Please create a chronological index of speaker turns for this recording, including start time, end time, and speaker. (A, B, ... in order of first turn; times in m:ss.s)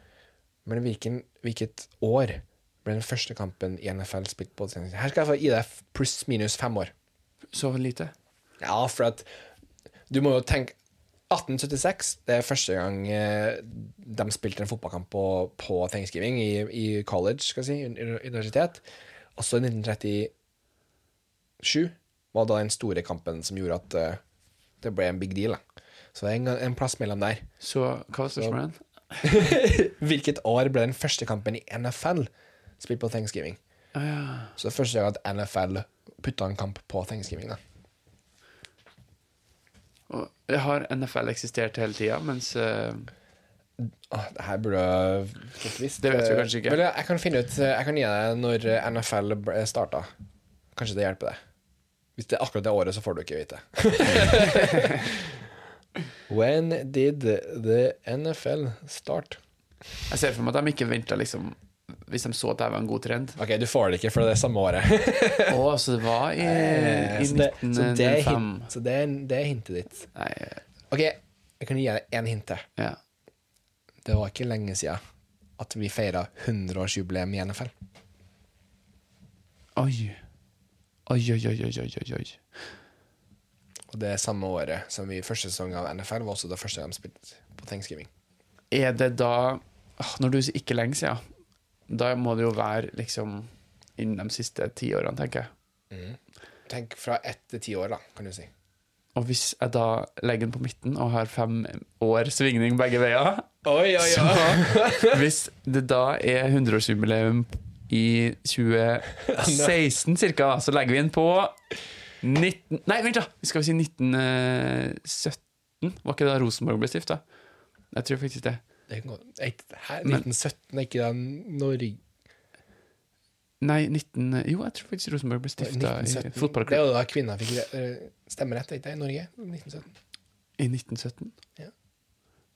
0:00.6-0:06.9 A
0:07.5-0:08.1 B
0:08.6-0:09.3 A
0:10.1-0:10.8 A
0:11.3-0:18.8 A
0:19.4-0:20.3 A
0:21.6-0:24.2 A
0:24.8-0:25.6 A
0:26.1-0:27.5 A
0:27.6-0:29.2 B
0:29.2-0:33.6 A
0:33.9-0:34.5 B
0:34.6-0:37.6 A
0:40.1-0:43.1 B
0:43.8-0:50.1 A
0:46.0-0:46.8 B
0:50.8-0:51.4 A
0:52.2-0:55.3 A
0:56.3-0:59.4 A
1:00.1-1:03.4 B
1:03.4-1:05.6 A
1:05.5-1:08.7 B
1:06.4-1:10.1 A
1:10.1-1:10.6 B
1:10.9-1:12.7 A
1:14.0-1:15.0 A
1:15.6-1:17.7 A
1:19.8-1:20.2 B
1:21.1-1:22.8 B
1:23.9-1:28.1 A
1:28.7-1:31.2 B
1:31.9-1:35.5 B
1:35.9-1:38.5 A
1:39.1-1:51.6 B
1:43.6-1:45.2 A
1:49.3-1:49.7 A
1:52.2-1:57.3 B
1:57.9-1:58.6 B
1:58.9-2:02.0 A
2:03.6-2:06.8 B
2:05.6-2:09.9 A
2:10.6-2:11.4 B